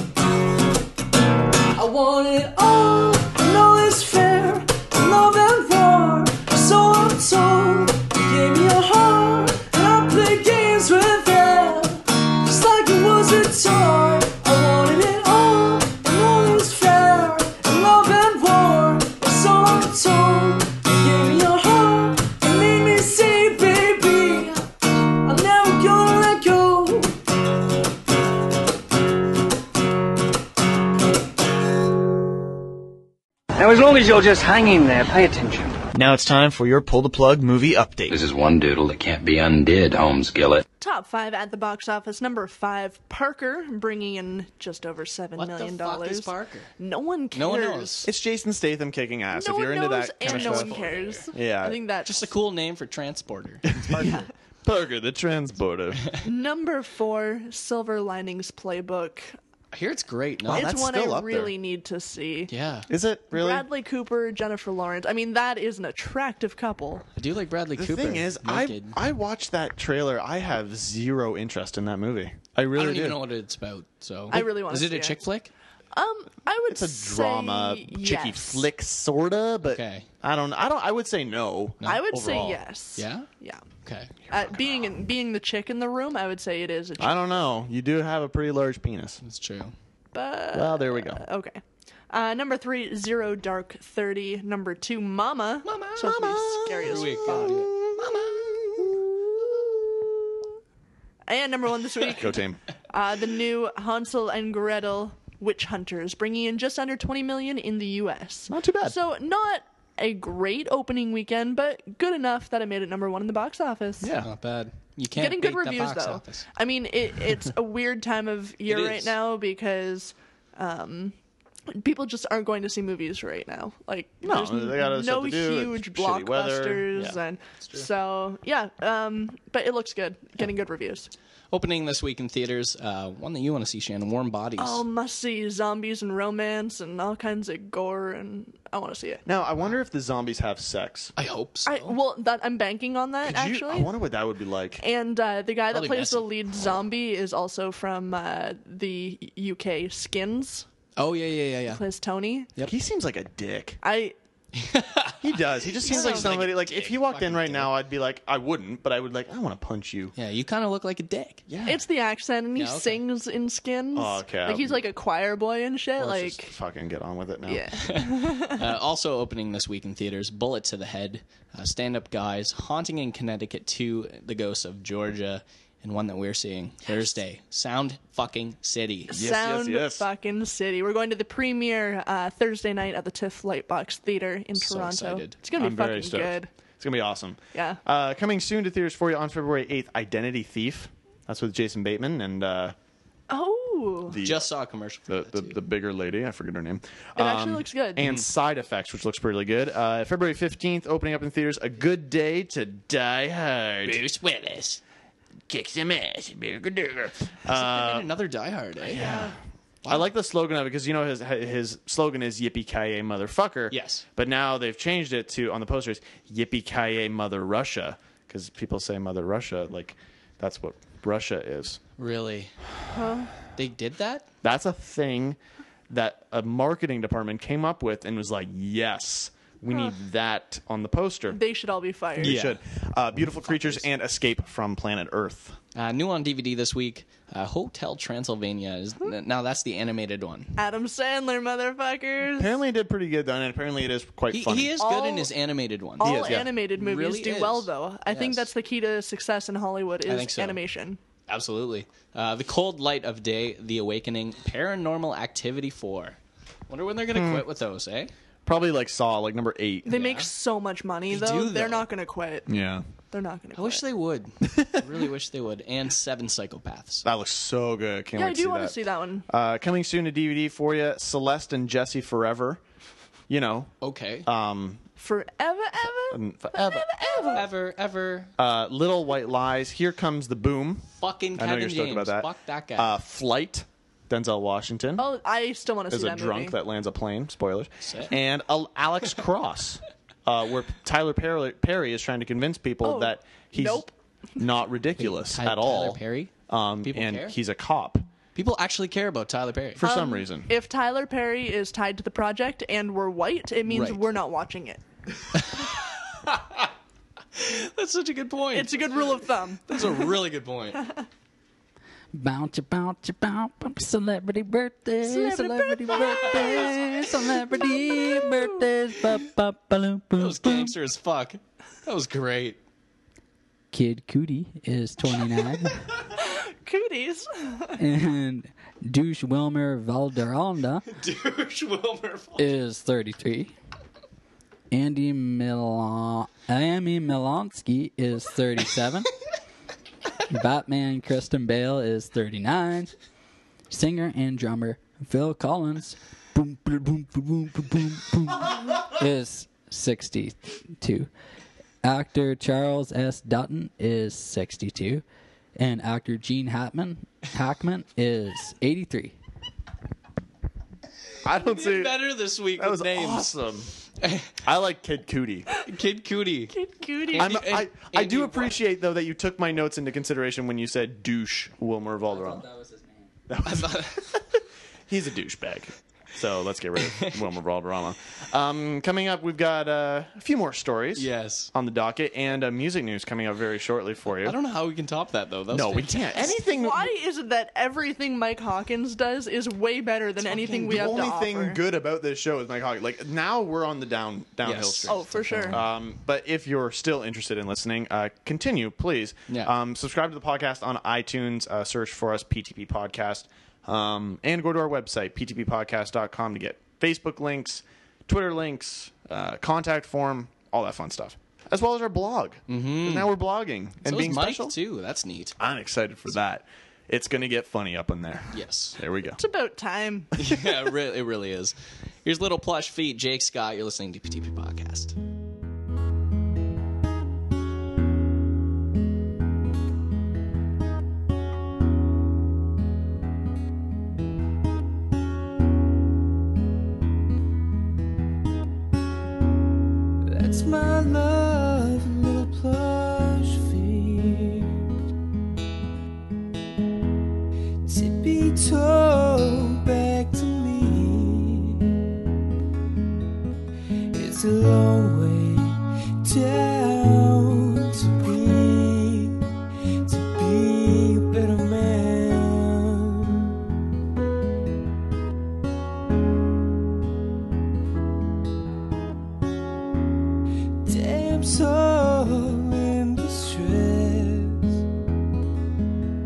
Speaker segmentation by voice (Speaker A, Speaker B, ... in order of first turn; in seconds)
Speaker A: 1.8-24.7, 25.2-27.1
Speaker B: 35.9-38.2, 48.1-50.8, 51.3-51.8, 53.8-56.1, 60.4-61.5, 62.9-63.7, 67.8-73.2, 76.7-82.6, 84.3-84.9, 87.0-89.2, 90.5-91.2, 96.8-100.1, 102.2-102.6, 108.5-109.0, 114.0-114.3, 124.2-127.2, 139.3-141.1, 143.2-144.8, 152.6-153.8, 155.2-160.2, 161.5-161.8, 163.9-164.9, 166.0-167.7, 179.1-180.1, 185.6-192.8, 194.1-194.5, 195.1-204.0, 205.5-208.1, 208.8-209.3, 209.9-221.8, 224.4-225.4, 225.9-231.4, 232.2-235.6, 242.3-244.8, 246.0-246.5, 257.1-257.4, 258.5-259.9, 262.5-262.9, 267.1-272.6, 273.3-274.8, 276.1-277.4, 278.4-285.1, 285.9-293.9, 294.4-298.1, 299.8-300.5, 361.2-362.0, 362.6-363.7, 364.4-365.5, 367.2-372.5, 373.3-384.4, 385.5-386.9, 390.3-414.6, 415.4-419.2
Speaker C: 38.1-40.6
Speaker D: 40.8-48.1, 49.3-52.3, 54.0-54.3, 56.2-59.4, 60.5-62.5, 63.3-67.1, 74.3-75.2, 75.9-78.7, 81.9-83.6, 84.3-87.4, 90.1-97.5, 101.3-114.1, 115.2-121.1, 121.7-131.1, 134.6-139.2, 141.7-143.9, 144.8-150.7, 151.7-152.5, 153.8-154.2, 155.8-156.3, 161.7-166.5, 167.4-168.6, 179.1-186.5, 187.5-187.8, 193.3-194.2, 197.2-198.1, 209.0-209.3, 222.9-223.3, 231.3-232.4, 240.6-242.6, 244.8-245.3, 246.0-251.0, 259.9-262.5, 263.1-263.8, 268.2-269.3, 275.0-277.4, 285.0-286.6, 292.8-293.9, 299.8-304.8, 308.5-310.1, 315.0-318.6, 326.2-327.8, 366.5-367.3, 386.2-391.6, 394.9-395.6, 419.2-420.5
Speaker E: 45.4-46.7, 47.3-48.1, 50.2-51.3, 52.0-53.8, 59.7-60.7, 62.5-62.9, 67.2-69.0, 72.7-75.5, 79.6-80.1, 83.0-83.3, 83.8-84.2, 89.2-89.7, 95.7-97.7, 114.2-116.5, 118.7-119.1, 131.5-134.8, 141.2-142.0, 145.7-146.8, 151.0-151.8, 154.6-157.7, 160.2-161.4, 162.6-163.0, 167.8-179.1, 184.6-185.4, 194.2-195.6, 203.8-204.8, 207.5-209.1, 213.7-214.0, 222.0-222.5, 223.5-224.3, 232.2-232.6, 235.8-240.6, 244.3-248.5, 250.1-250.6, 251.3-256.2, 256.7-258.1, 259.9-260.3, 261.1-261.9, 263.6-267.1, 273.8-274.3, 277.3-278.3, 281.0-282.9, 287.8-288.1, 295.0-297.4, 298.4-299.8, 303.7-304.0, 305.4-306.6, 307.4-310.8, 320.2-322.6, 330.9-332.5, 361.4-363.3, 364.0-364.3, 365.6-366.6, 367.1-368.6, 373.5-374.1, 381.0-381.5, 384.1-386.3, 394.4-395.6, 412.5-413.1, 413.8-415.4, 418.3-418.8, 420.2-425.0
Speaker F: 312.1-320.7, 323.7-325.9, 327.8-330.9, 332.4-333.6, 334.7-339.1, 340.3-342.9, 343.7-351.1, 351.8-355.0, 355.6-359.1, 372.1-373.1
Speaker G: 440.1-444.5, 447.7-451.7, 453.9-459.2, 459.9-463.3, 470.7-474.6